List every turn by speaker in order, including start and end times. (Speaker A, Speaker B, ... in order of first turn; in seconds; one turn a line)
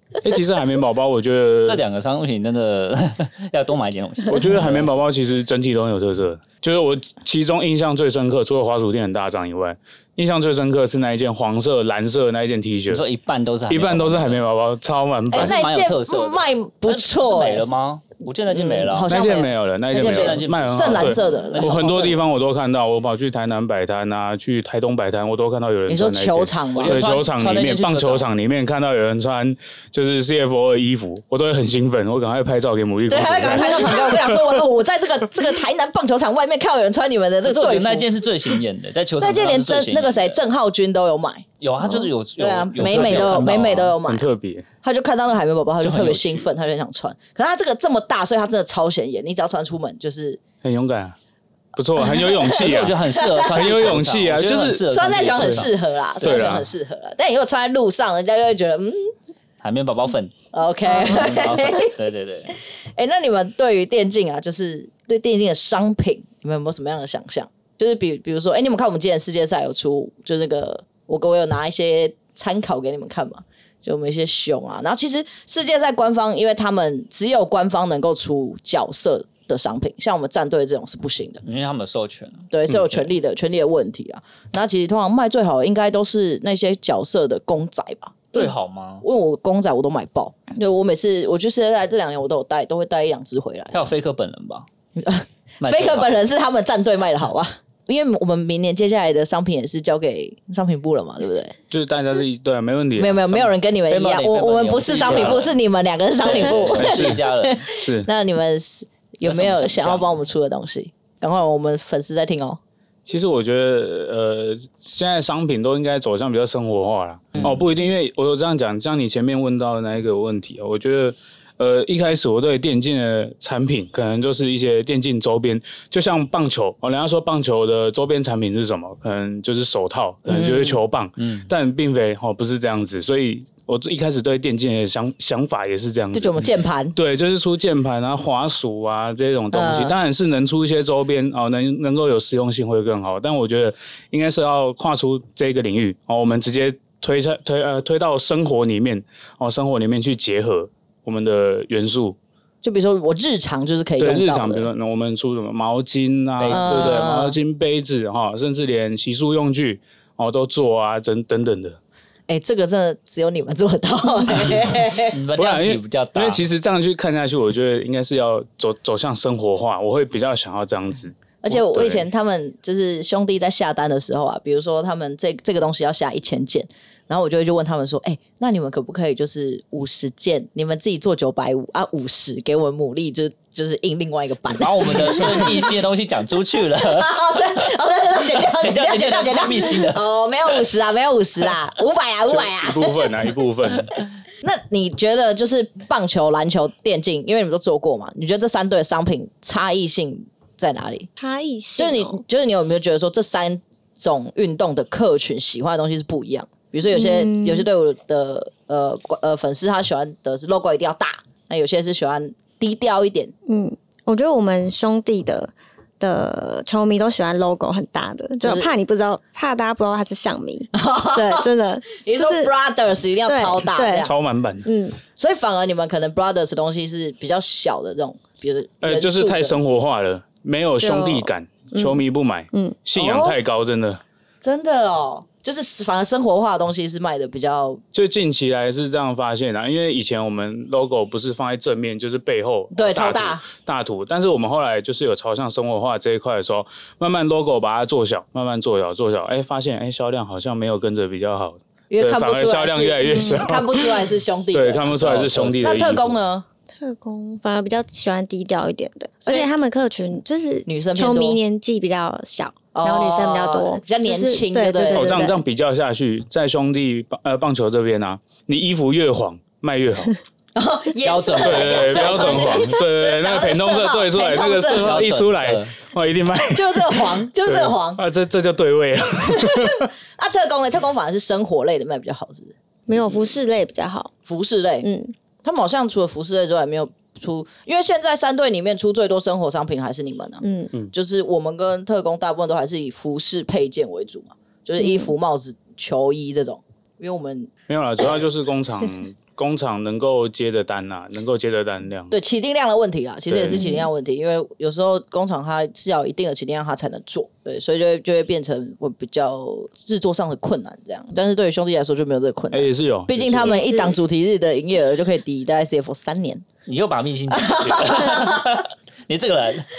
Speaker A: 0.2-1.8
Speaker B: 1.6-5.0
Speaker A: 4.3-13.0
Speaker B: 12.9-14.4
Speaker A: 13.7-15.6
Speaker C: 15.3-17.6
Speaker B: 15.3-19.1
Speaker C: 18.5-21.9
Speaker A: 19.1-34.6
Speaker B: 19.9-22.2
Speaker C: 25.9-27.1
Speaker B: 26.8-28.3
Speaker C: 33.1-38.1
Speaker B: 37.4-40.4
Speaker C: 39.2-44.3
Speaker B: 41.6-44.0
Speaker A: 42.8-44.7
Speaker C: 44.8-50.4
Speaker B: 45.8-46.5
Speaker A: 50.6-51.2
Speaker A: 51.8-55.6
Speaker B: 52.1-56.7
Speaker C: 52.1-54.0
Speaker C: 54.9-59.1
Speaker A: 56.2-56.7
Speaker B: 59.6-62.5
Speaker C: 60.5-61.9
Speaker C: 62.5-81.4
Speaker B: 81.5-82.5
Speaker C: 82.5-93.9
Speaker B: 88.3-89.0
Speaker B: 93.7-94.7
Speaker C: 95.0-101.5
Speaker B: 95.6-96.2
Speaker A: 101.7-103.5
Speaker C: 103.0-112.6
Speaker B: 103.9-105.6
Speaker A: 105.1-105.4
Speaker B: 106.2-107.7
Speaker A: 106.7-107.2
Speaker A: 107.7-108.1
Speaker B: 109.2-110.2
Speaker A: 113.0-152.2
Speaker C: 130.3-130.8
Speaker B: 131.2-131.5
Speaker C: 136.1-136.9
Speaker C: 139.5-139.9
Speaker C: 152.6-154.7
Speaker A: 154.0-161.8
Speaker B: 156.4-157.2
Speaker C: 156.5-157.4
Speaker C: 162.3-165.2
Speaker B: 164.4-166.4
Speaker A: 165.3-172.1
Speaker C: 171.4-185.7
Speaker B: 184.6-187.7
Speaker C: 186.9-193.0
Speaker B: 188.3-190.0
Speaker A: 192.3-193.9
Speaker C: 194.4-201.1
Speaker D: 201.2-202.2
Speaker C: 201.8-213.3
Speaker D: 206.9-207.7
Speaker D: 213.5-222.5
Speaker C: 218.4-218.7
Speaker C: 220.7-224.1
Speaker D: 223.3-224.1
Speaker A: 224.0-224.7
Speaker D: 224.6-225.0
Speaker C: 225.2-229.6
Speaker A: 228.8-234.0
Speaker D: 230.8-232.8
Speaker C: 233.0-233.4
Speaker C: 234.4-237.8
Speaker A: 237.9-256.1
Speaker C: 242.7-243.5
Speaker C: 251.9-256.5
Speaker B: 254.9-255.6
Speaker D: 256.8-265.4
Speaker C: 259.2-259.5
Speaker C: 260.7-261.4
Speaker C: 262.7-265.3
Speaker A: 264.9-270.2
Speaker C: 270.6-275.0
Speaker B: 271.0-272.6
Speaker A: 271.4-279.9
Speaker B: 274.8-275.7
Speaker C: 276.5-278.0
Speaker C: 279.3-282.5
Speaker D: 282.9-284.1
Speaker C: 284.3-284.9
Speaker D: 284.8-285.1
Speaker C: 285.4-297.5
Speaker D: 290.4-290.7
Speaker D: 294.8-295.1
Speaker A: 297.7-302.1
Speaker C: 302.1-316.4
Speaker A: 303.3-303.7
Speaker D: 303.6-303.9
Speaker A: 312.5-313.8
Speaker B: 316.7-319.7
Speaker C: 317.3-318.6